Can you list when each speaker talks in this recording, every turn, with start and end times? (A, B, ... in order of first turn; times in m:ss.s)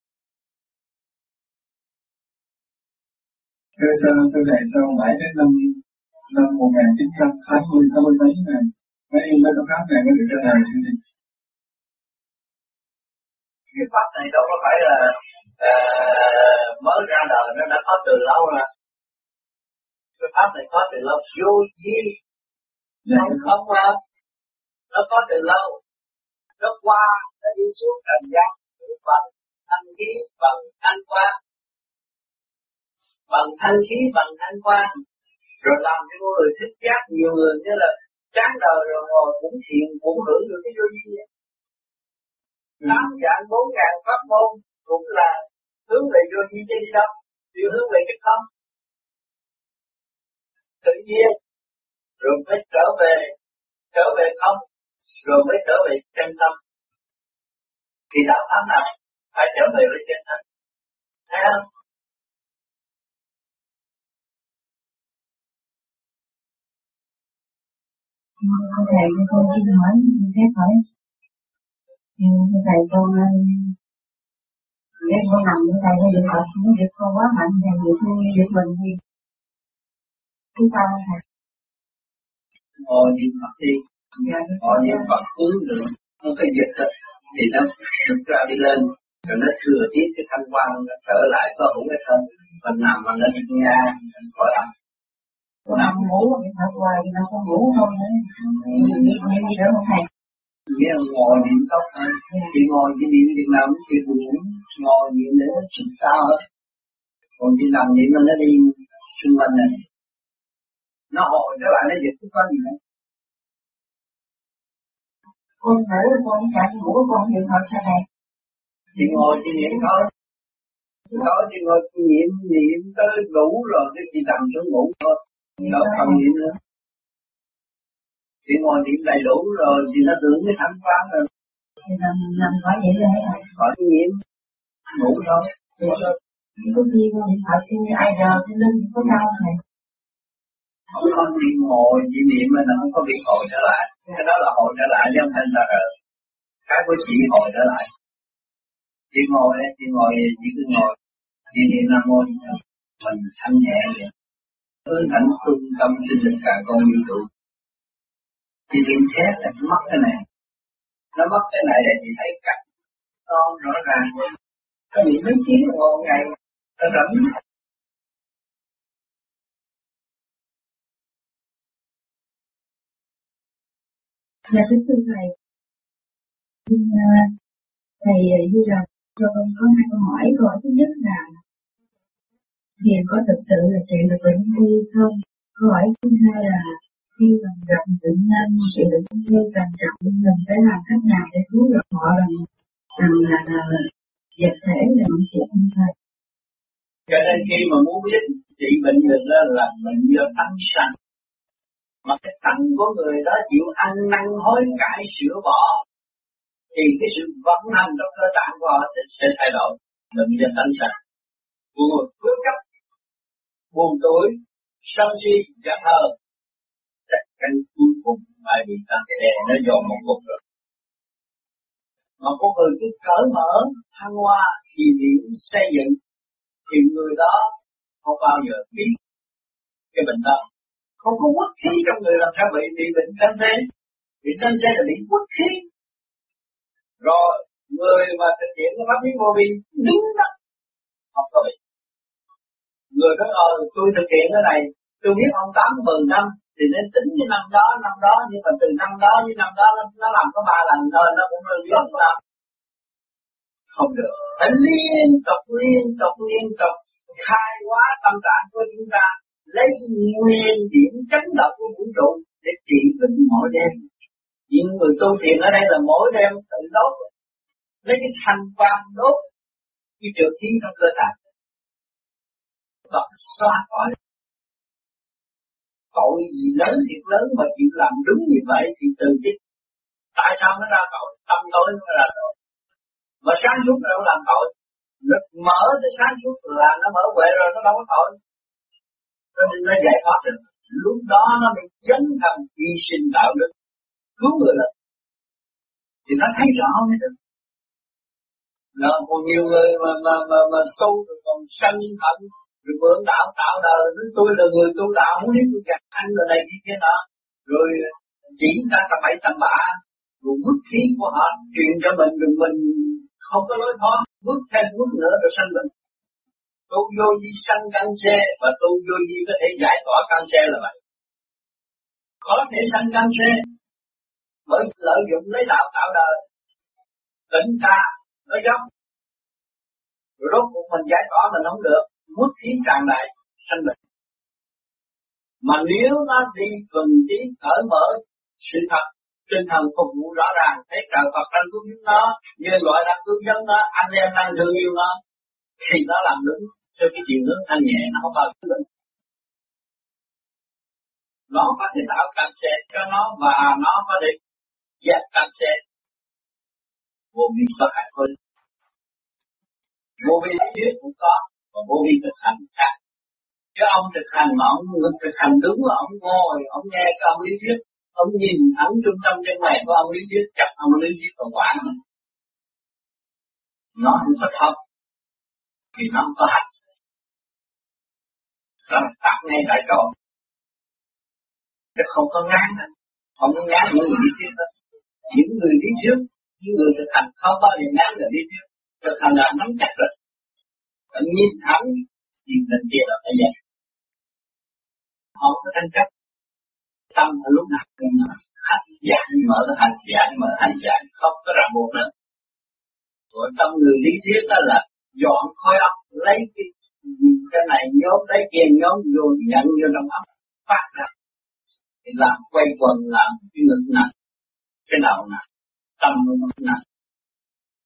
0:03.8-0:05.7 A
0:06.3-0:11.0 A
0:13.7-0:18.7 B
0:20.2-0:22.1 B
0:23.1-0:24.0 B
0:24.9-0:25.8 B
0:26.6-0:31.3 B
0:33.3-0:34.9 B
0:35.6-0:41.2 B
0:42.8-0:45.3 B
0:45.9-0:48.4 B
0:50.8-0:51.3 B
0:52.2-0:53.3 B
0:53.9-0:56.5 B
0:58.1-1:00.4 B
1:01.3-1:01.6 B
1:08.4-1:10.8 C
1:12.2-1:13.7 C
1:15.0-1:19.0 C
1:20.6-1:21.2 C
1:22.8-1:23.8 B
1:24.2-1:25.1 C
1:24.6-1:34.7 B
1:35.7-1:40.0 C
1:40.7-1:46.4 B
1:47.4-1:49.8 B
1:51.1-1:52.8 B
1:55.6-1:58.0 C
1:59.0-2:00.0 B
1:59.0-1:59.7 C
2:01.1-2:06.5 B
2:05.6-2:06.2 C
2:08.4-2:11.2 B
2:11.8-2:13.5 C
2:13.6-2:14.1 B
2:15.0-2:15.4 B
2:15.8-2:19.6 C
2:20.9-2:25.9 B
2:26.7-2:27.8 B
2:29.1-2:30.9 B
2:31.5-2:34.1 B
2:34.9-2:37.2 B
2:38.7-2:40.2 B
2:41.2-2:42.6 B
2:43.3-2:44.2 B
2:44.9-2:46.2 B
2:46.8-2:47.3 B
2:54.5-2:55.3 C
2:56.7-2:57.3 C
2:58.0-3:01.4 C
3:02.8-3:12.4 C
3:13.0-3:13.8 C
3:14.4-3:15.9 C
3:17.1-3:20.9 B
3:22.0-3:25.8 B
3:26.7-3:30.9 B
3:31.7-3:32.6 B
3:33.7-3:36.1 B
3:37.1-3:40.4 B
3:42.2-3:46.0 B
3:46.7-3:47.4 B
3:48.0-3:48.9 B
3:49.9-3:50.4 B
3:51.0-3:53.6 B
3:54.2-3:55.6 B
3:57.0-4:00.3 B
4:01.1-4:01.5 B
4:02.9-4:12.1 B
4:13.7-4:23.8 B
4:24.5-4:27.0 B
4:27.8-4:29.2 B
4:30.0-4:31.1 B
4:32.9-4:33.9 B
4:35.9-4:39.4 B
4:40.2-4:42.3 B
4:43.2-4:44.5 B
4:45.0-4:48.1 B
4:49.4-4:53.5 B
4:54.2-4:54.7 B
4:56.1-4:57.1 B
4:58.8-5:15.7 B
5:16.7-5:20.8 B
5:22.2-5:23.4 B
5:24.5-5:26.1 B
5:27.3-5:28.6 B
5:30.2-5:33.7 B
5:35.4-5:44.9 B
5:45.6-5:48.6 B
5:51.3-5:54.2 B
5:54.8-5:55.6 B
5:57.1-5:58.1 B
6:00.0-6:02.7 B
6:03.6-6:11.8 B
6:13.8-6:14.6 B
6:15.8-6:16.4 B
6:18.7-6:19.9 B
6:21.8-6:22.7 B
6:23.2-6:24.4 B
6:25.1-6:29.9 B
6:30.9-6:33.3 B
6:35.2-6:35.9 B
6:36.9-6:41.9 B
6:43.1-6:50.9 B
6:51.8-6:53.9 B
6:54.7-6:55.2 B
6:55.8-6:56.6 B